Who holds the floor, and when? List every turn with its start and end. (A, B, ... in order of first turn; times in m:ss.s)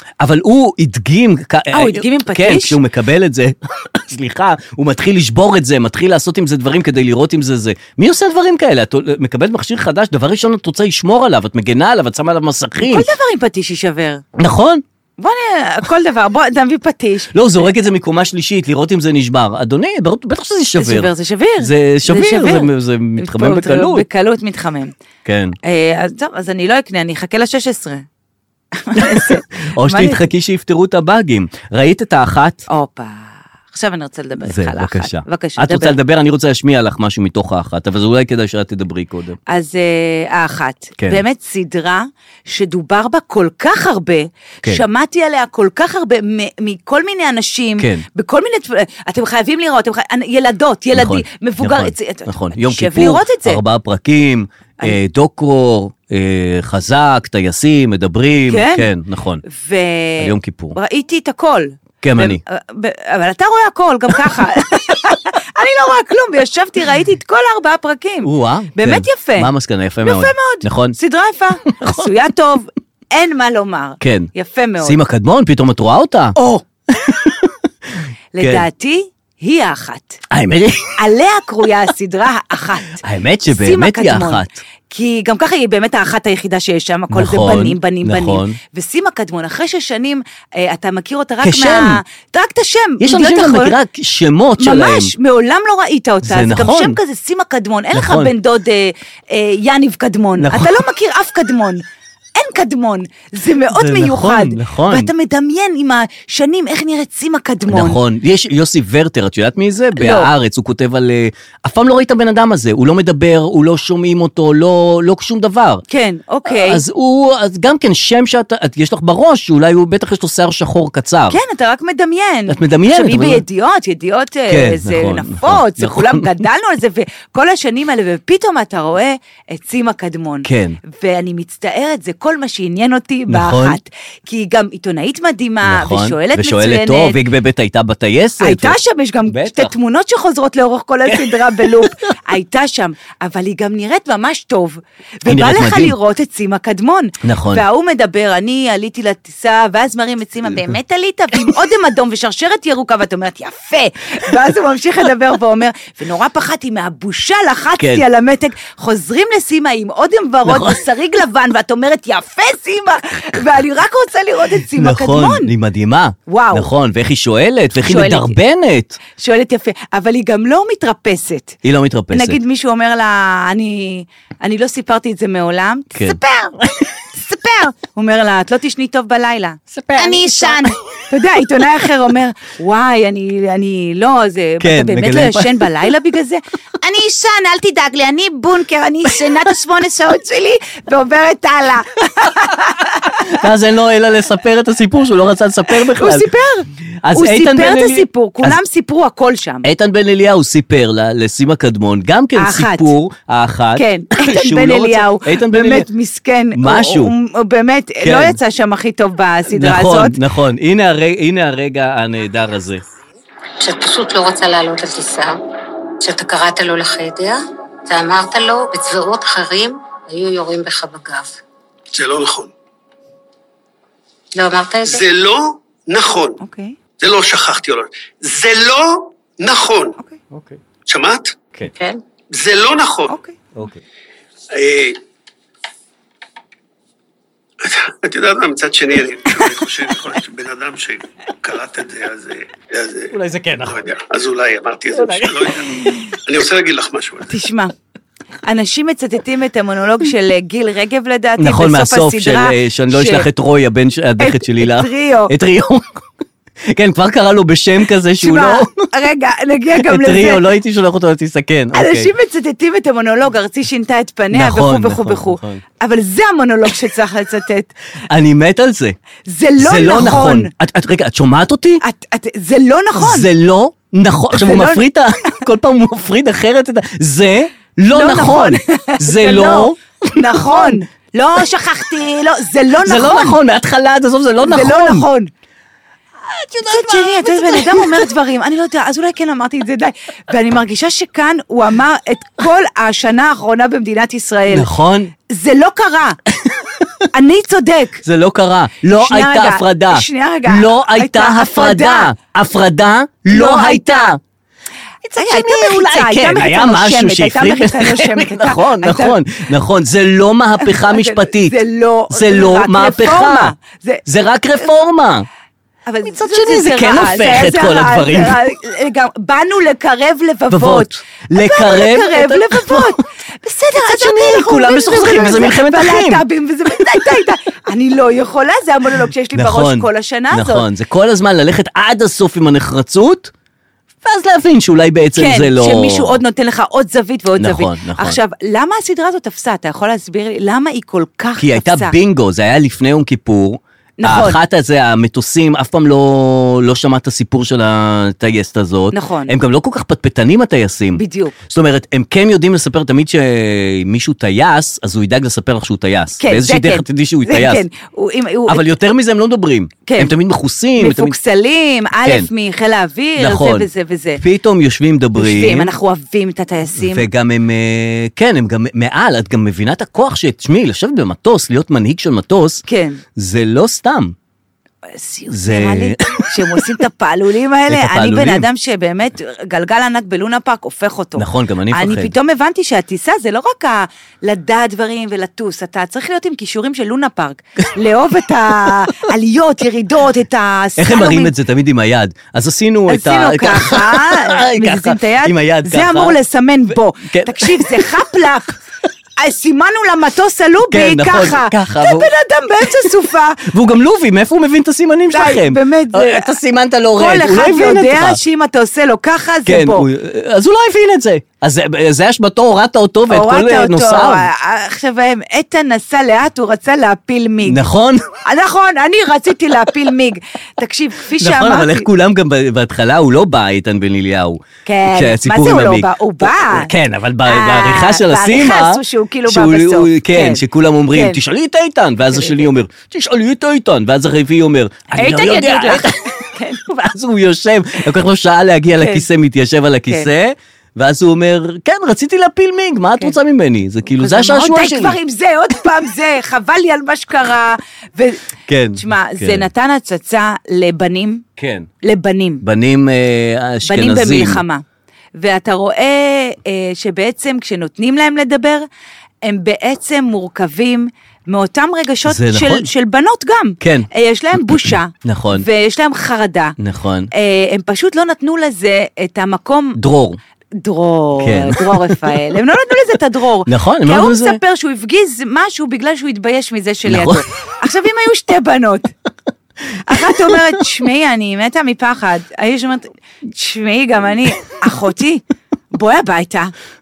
0:00.2-0:13.1 A
0:01.7-0:02.8 B
0:12.8-0:14.2 B
0:14.4-0:14.8 A
0:15.2-0:17.7 B
0:17.3-0:24.0 A
0:20.8-0:24.9 B
0:25.2-0:25.5 A
0:25.6-0:28.0 B
0:28.7-0:30.2 B
0:28.9-0:32.6 A
0:32.7-0:36.0 B
0:34.4-0:39.4 A
0:39.5-0:53.6 B
0:47.8-0:48.0 A
0:50.9-0:59.4 A
0:58.5-0:58.9 B
0:59.4-1:09.5 B
1:00.2-1:00.8 A
1:02.0-1:02.4 A
1:08.2-1:11.0 A
1:10.0-1:15.0 B
1:11.7-1:12.1 A
1:14.0-1:14.3 A
1:14.8-1:16.4 A
1:16.4-1:16.6 B
1:16.9-1:18.6 A
1:18.3-1:20.2 B
1:20.3-1:21.0 A
1:21.0-1:33.8 B
1:23.0-1:24.6 A
1:27.1-1:28.6 A
1:31.4-1:32.0 A
1:33.0-1:35.1 A
1:34.6-1:41.8 B
1:36.2-1:37.0 A
1:37.9-1:38.3 A
1:40.4-1:40.8 A
1:42.3-1:48.0 B
1:43.7-1:45.1 A
1:47.7-1:55.8 A
1:49.9-1:50.3 B
1:55.9-1:56.8 B
1:56.4-2:01.4 A
2:01.3-2:17.2 B
2:02.5-2:03.4 A
2:04.5-2:06.4 A
2:10.4-2:10.8 A
2:13.3-2:13.8 A
2:15.6-2:18.8 A
2:18.4-2:45.5 B
2:19.3-2:19.7 A
2:21.1-2:21.8 A
2:25.2-2:25.9 A
2:27.2-2:27.6 A
2:37.8-2:38.0 A
2:40.4-2:40.8 A
2:44.7-2:49.0 A
2:46.3-2:46.7 B
2:47.8-2:48.4 B
2:49.1-2:51.6 B
2:51.6-2:52.4 A
2:52.1-2:56.6 B
2:55.9-2:56.7 A
2:57.1-3:13.2 B
2:59.7-3:00.6 A
3:04.6-3:05.9 A
3:13.2-3:16.3 A
3:15.7-3:19.7 B
3:17.0-3:18.6 A
3:19.6-3:25.9 A
3:22.4-3:22.9 B
3:23.7-3:30.2 B
3:26.5-3:27.1 A
3:28.0-3:28.4 A
3:29.5-3:32.8 A
3:33.6-3:35.4 C
3:36.0-3:41.4 C
3:41.9-3:42.5 D
3:44.3-3:45.0 C
3:44.8-3:46.4 D
3:46.4-3:46.8 B
3:47.0-3:50.0 D
3:50.3-3:50.6 A
3:50.9-3:51.4 D
3:51.7-3:52.0 C
3:52.3-3:53.2 D
3:53.1-3:53.4 B
3:53.5-3:53.8 A
3:54.5-3:55.0 D
3:57.6-4:03.1 D
4:03.1-4:03.8 A
4:03.6-4:07.3 D
4:04.9-4:05.5 A
4:07.3-4:07.7 B
4:08.4-4:13.3 B
4:11.4-4:16.0 A
4:14.2-4:15.3 B
4:16.7-4:18.9 A
4:18.2-4:20.5 B
4:19.8-4:22.1 A
4:21.7-4:27.7 B
4:24.3-4:25.6 A
4:28.1-4:29.0 A
4:29.3-4:30.5 B
4:29.6-4:31.8 A
4:31.8-4:33.3 B
4:33.0-4:40.8 A
4:34.3-4:34.8 B
4:37.9-4:43.4 B
4:42.8-4:45.0 A
4:44.4-4:45.3 B
4:46.3-4:48.0 A
4:46.6-4:54.7 B
4:54.5-4:55.1 A
4:55.3-4:56.2 B
4:56.4-4:57.0 A
4:57.1-4:58.0 B
4:58.0-5:04.2 A
4:58.9-5:02.1 B
5:03.3-5:04.2 B
5:05.1-5:11.6 A
5:05.1-5:09.2 B
5:10.6-5:14.0 B
5:12.1-5:13.5 A
5:14.0-5:15.3 A
5:15.8-5:30.7 B
5:16.0-5:18.4 A
5:20.5-5:23.0 A
5:23.8-5:26.2 A
5:29.3-5:33.3 A
5:34.0-5:36.2 A
5:35.1-5:42.0 B
5:37.4-5:38.2 A
5:41.4-5:57.6 A
5:44.0-5:44.4 B
5:48.9-5:49.3 B
5:50.9-5:51.3 B
5:56.2-5:58.6 B
5:58.5-6:01.2 A
5:59.8-6:00.1 B
6:00.8-6:04.2 B
6:03.2-6:05.7 A
6:05.2-6:07.1 B
6:06.8-6:12.6 A
6:12.7-6:13.0 B
6:13.2-6:14.1 A
6:14.9-6:31.3 B
6:15.3-6:16.6 A
6:17.7-6:18.5 A
6:21.2-6:22.1 A
6:30.8-6:36.2 A
6:32.9-6:38.6 B
6:37.0-6:37.9 A
6:39.2-6:43.5 B
6:40.7-6:42.1 A
6:43.4-6:48.2 A
6:45.1-6:46.3 B
6:46.9-6:49.9 B
6:49.4-6:54.3 A
6:53.1-6:57.6 B
6:57.4-6:58.1 A
6:58.2-7:01.9 B
7:01.2-7:16.0 A
7:04.6-7:06.7 B
7:07.2-7:11.2 B
7:12.1-7:12.5 B
7:14.9-7:16.6 B
7:16.6-7:25.0 A
7:18.8-7:19.0 B
7:24.0-7:28.2 B
7:28.5-7:29.4 A
7:28.7-7:31.2 B
7:31.4-7:31.7 A
7:31.8-7:32.4 B
7:32.4-7:34.4 A
7:33.6-7:34.6 B
7:35.2-7:38.7 B
7:39.2-7:46.6 B
7:42.1-7:42.7 A
7:43.6-7:43.9 A
7:45.0-7:45.4 A
7:46.6-7:47.1 A
7:47.1-7:49.8 B
7:49.8-7:50.2 A
7:50.5-7:58.9 B
7:51.2-7:51.9 A
7:53.5-7:54.4 A
7:56.8-7:57.2 A
7:59.7-8:00.2 A
7:59.8-8:06.5 B